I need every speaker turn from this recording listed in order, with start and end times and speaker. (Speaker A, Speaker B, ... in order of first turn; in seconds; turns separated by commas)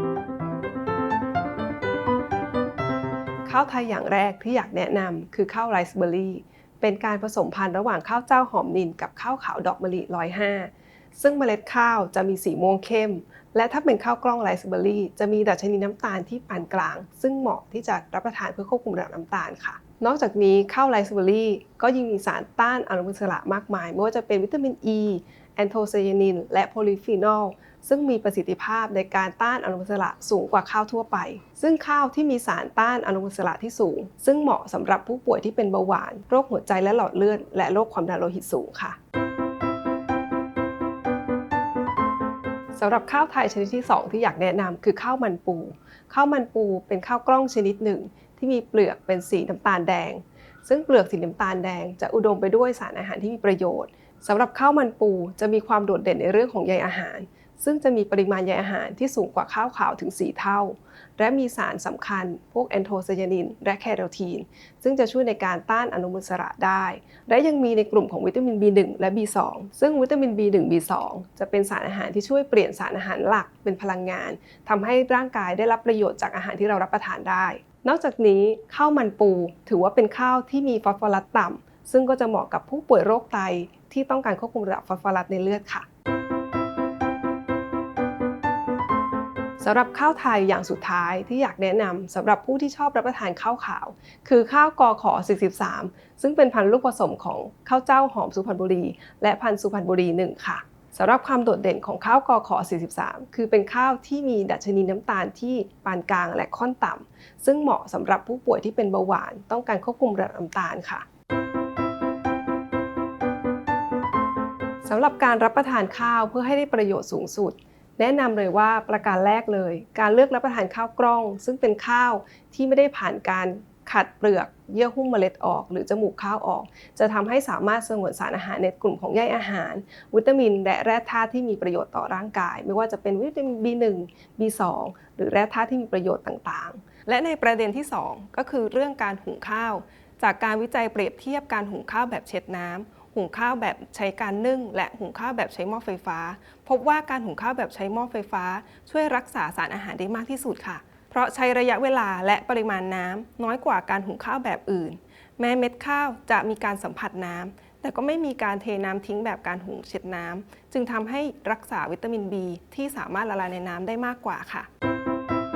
Speaker A: 3.5-39.0, Speaker A: 42.7-85.9, Speaker A: 89.6-111.0, Speaker A: 114.8-164.7